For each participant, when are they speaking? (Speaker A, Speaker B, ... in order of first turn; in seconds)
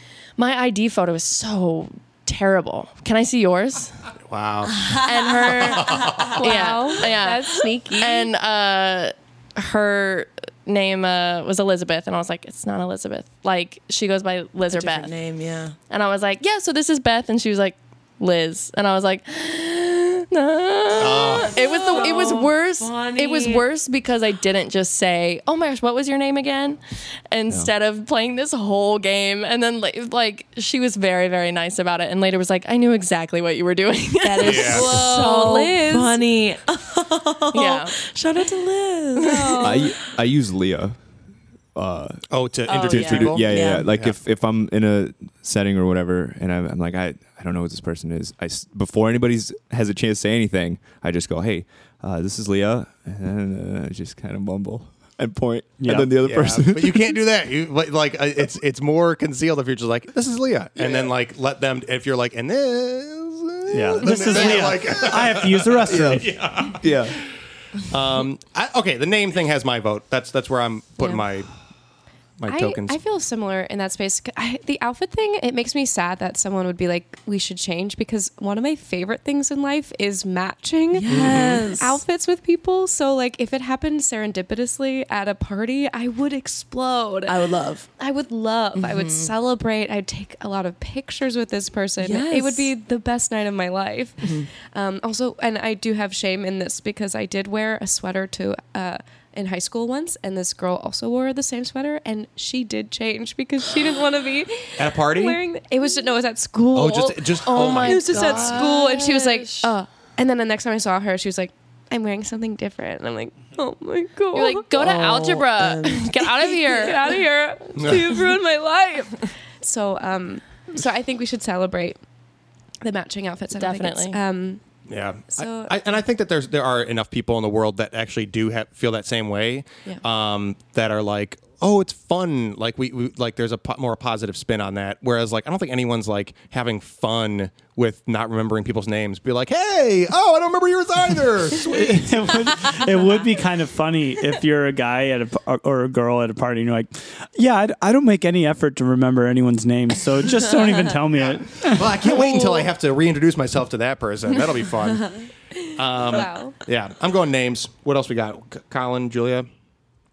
Speaker A: 0.4-4.0, 4.9-15.1, 15.9-35.7, 37.5-38.0, 39.2-39.8, 107.4-109.7, 114.3-117.2, 123.5-124.2
Speaker B: 4.3-6.4, 21.0-21.6, 34.4-34.9, 42.3-44.2, 56.1-67.3, 67.8-71.5, 72.4-73.0, 81.1-81.6, 104.8-105.4, 106.7-108.7, 117.8-118.2, 124.9-142.8, 151.2-155.2, 155.8-159.5
Speaker C: 6.2-8.3, 34.4-36.2, 39.3-39.8, 72.5-87.4, 88.0-114.7, 116.5-122.0, 122.8-124.6, 125.3-125.8, 155.7-156.6
Speaker D: 14.7-15.8, 21.4-23.7, 34.3-39.6, 42.7-43.9, 80.9-82.0, 87.3-87.9, 88.8-89.3, 92.0-92.7, 94.2-94.5, 114.8-116.2
Speaker E: 39.6-41.0, 41.8-57.2, 65.9-67.2
Speaker F: 55.8-56.1, 63.7-66.4, 141.6-152.0